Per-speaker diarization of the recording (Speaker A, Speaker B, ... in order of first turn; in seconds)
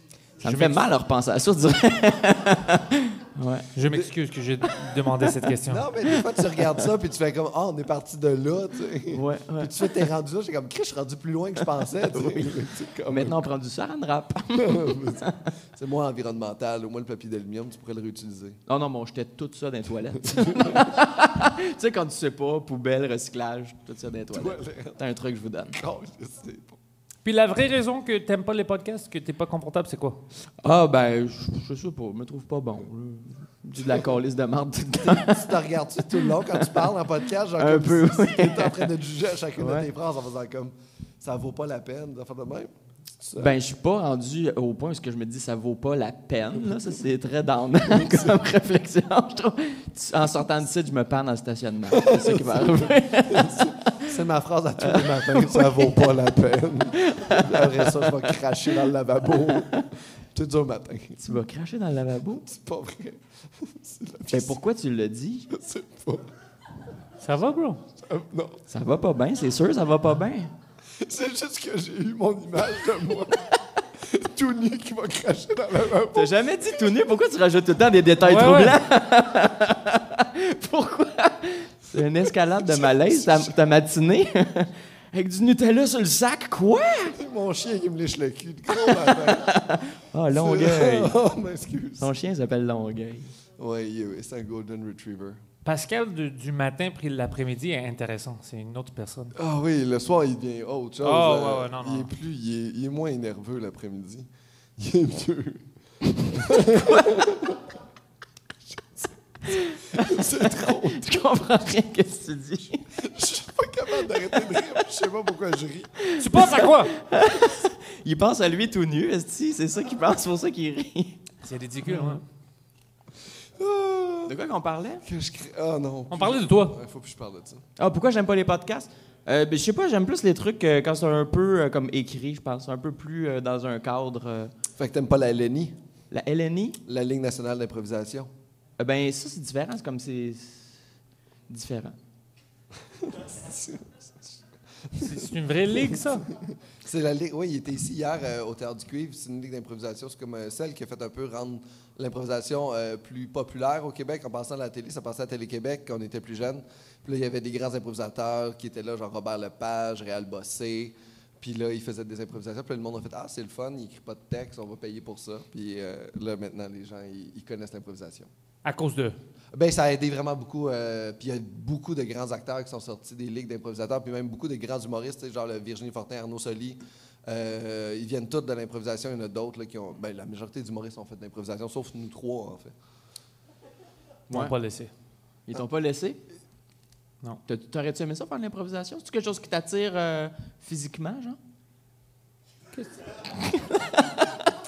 Speaker A: 0.4-3.7, 9.1-10.0, 12.0-15.3, 18.7-25.8, 30.6-35.6, 36.2-36.9, 37.6-38.9, 39.6-39.9, 43.4-54.1, 54.8-56.2, 57.0-58.3, 59.3-59.8, 61.2-62.4, 64.3-65.5, 68.7-70.5, 76.1-87.2, 88.8-91.1, 92.0-93.3, 109.5-112.8, 114.0-114.6, 116.0-121.2, 121.9-122.2, 124.2-125.0, 127.8-134.5, 136.1-136.8, 138.8-140.8, 141.5-141.9, 185.5-186.2, 187.5-191.4, 193.3-193.9
Speaker B: 0.4-0.8, 3.7-5.9, 27.2-30.2, 67.2-67.8, 78.2-78.8, 95.6-99.3, 101.0-102.1, 116.2-116.9, 121.4-122.2, 126.1-126.8, 145.0-146.3, 168.6-169.2, 184.3-184.9
Speaker C: 5.7-13.4, 14.6-18.6, 20.4-20.8, 24.3-25.0, 25.7-26.8, 35.0-43.6, 47.9-48.3, 51.9-61.4, 62.4-64.6, 65.5-66.3, 68.0-68.6, 71.0-76.9, 82.0-83.5, 87.2-89.6, 90.3-92.1, 93.6-95.4, 99.3-105.7, 106.2-107.6, 108.7-111.2, 113.0-116.0, 123.5-124.4, 125.0-127.6, 134.8-135.7, 136.8-138.3, 143.0-144.3, 144.9-168.3, 169.5-182.7